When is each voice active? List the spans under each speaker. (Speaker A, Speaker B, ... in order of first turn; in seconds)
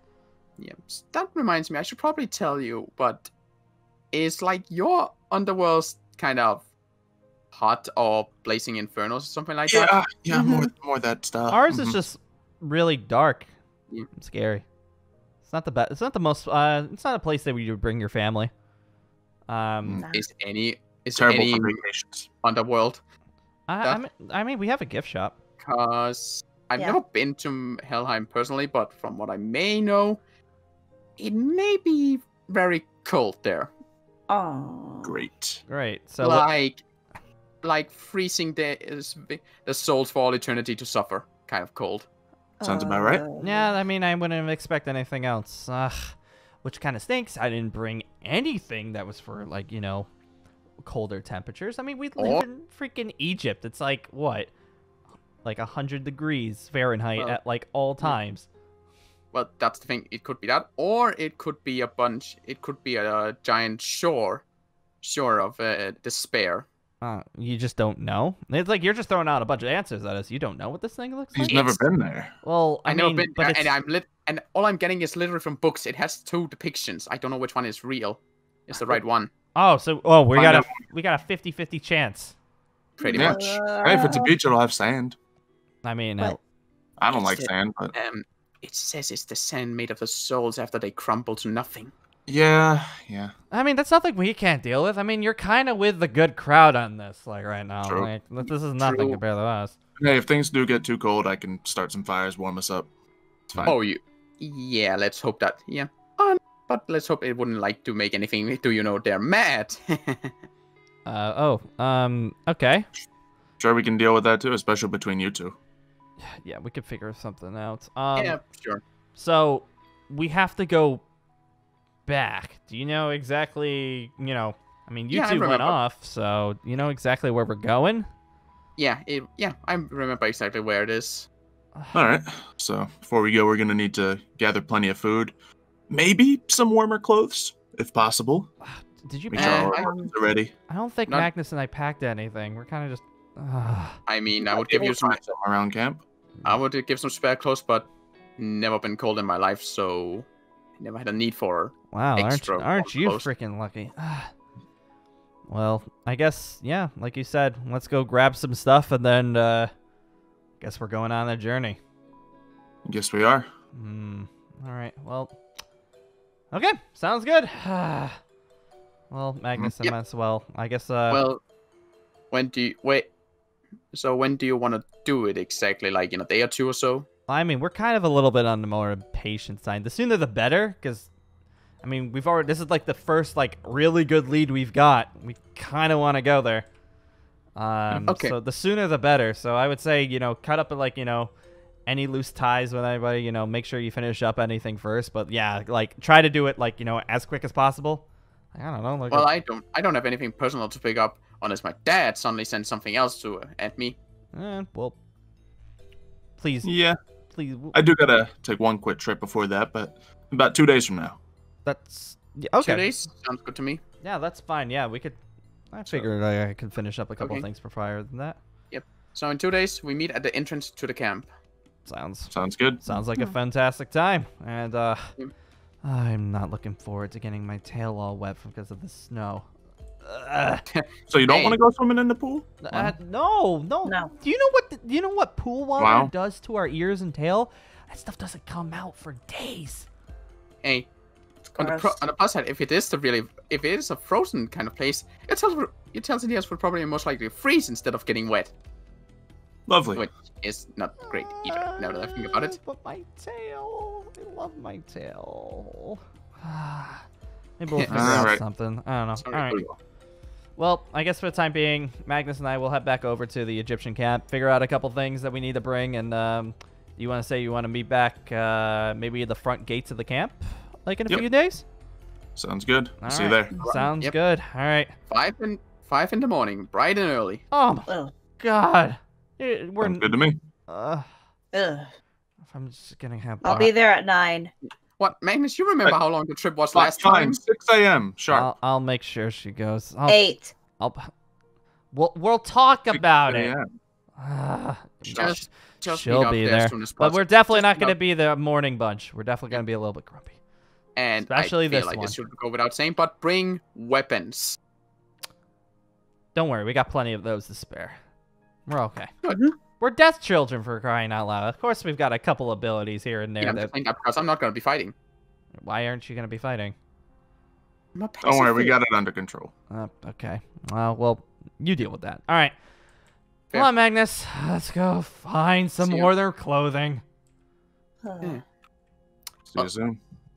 Speaker A: 0.6-3.3, 4.1-6.7, 7.5-10.0, 20.1-21.8, 22.4-23.0, 25.6-30.2, 31.2-33.7, 36.2-36.8, 37.6-42.1, 52.2-52.4, 59.3-64.4, 65.0-66.7, 72.9-79.3, 83.0-83.8, 87.1-91.9, 98.8-99.2, 103.6-110.3, 118.2-118.8, 125.1-125.8, 128.8-131.3, 139.3-140.1, 144.1-145.2, 146.4-150.3, 150.8-153.3, 171.1-171.4, 172.3-173.1, 173.9-177.1, 188.1-188.3, 199.1-204.0, 212.6-213.8, 217.2-217.4, 218.7-221.3, 230.7-231.6, 240.6-240.9, 241.5-248.5, 249.9-252.6, 257.8-258.3, 259.2-259.7, 273.6-274.1, 275.1-277.4, 285.0-287.4, 295.1-297.9, 300.9-304.6, 313.4-314.9, 317.9-318.8, 325.8-326.1
Speaker B: 9.7-12.0, 21.1-22.3, 35.0-35.6, 42.6-43.2, 71.3-72.3, 80.3-80.8, 83.1-85.2, 87.0-87.9, 92.3-93.3, 97.8-98.1, 100.0-102.9, 103.5-103.8, 113.6-115.5, 131.9-135.3, 135.9-138.5, 139.3-140.5, 144.4-146.0, 162.8-163.5, 206.6-207.0, 207.7-211.2, 222.3-222.8, 231.1-232.9, 235.8-236.1, 249.7-250.1, 257.9-258.4, 272.4-273.5, 279.8-280.4, 286.7-288.5, 292.9-293.6, 318.2-319.5, 329.5-330.0
Speaker C: 10.3-10.7, 20.0-20.2, 34.3-35.2, 42.6-43.7, 83.0-84.3, 233.8-234.1, 241.6-241.9, 273.5-273.9, 277.9-278.1, 281.5-281.9, 283.4-284.5, 290.1-290.5, 309.3-309.5, 328.0-328.4
Speaker D: 11.5-13.5, 14.1-14.6, 15.4-18.5, 19.5-20.0, 23.7-25.3, 35.7-36.5, 43.4-50.1, 50.8-54.5, 55.4-58.5, 67.0-71.8, 72.4-73.7, 79.5-82.3, 85.8-86.4, 93.5-99.7, 111.0-112.9, 116.2-118.4, 119.2-121.0, 122.1-128.1, 138.7-139.9, 140.7-144.0, 151.9-154.3, 155.5-159.7, 160.6-161.8, 163.7-165.4, 166.5-168.2, 169.1-171.2, 177.3-181.1, 181.8-186.7, 187.6-191.3, 191.8-199.3, 204.3-205.0, 206.4-206.7, 207.3-207.8, 211.7-212.9, 214.0-215.2, 215.7-218.4, 221.8-225.1, 225.8-229.5, 230.0-230.6, 232.6-239.9, 251.0-257.0, 257.6-259.6, 260.6-271.6, 273.0-274.9, 277.5-280.1, 280.7-281.1, 282.5-283.7, 288.3-290.2, 290.8-291.1, 291.9-293.5, 294.2-300.4, 301.2-302.2, 306.3-308.0, 308.7-309.1, 309.8-313.7, 315.6-316.7, 319.7-322.6, 323.5-327.0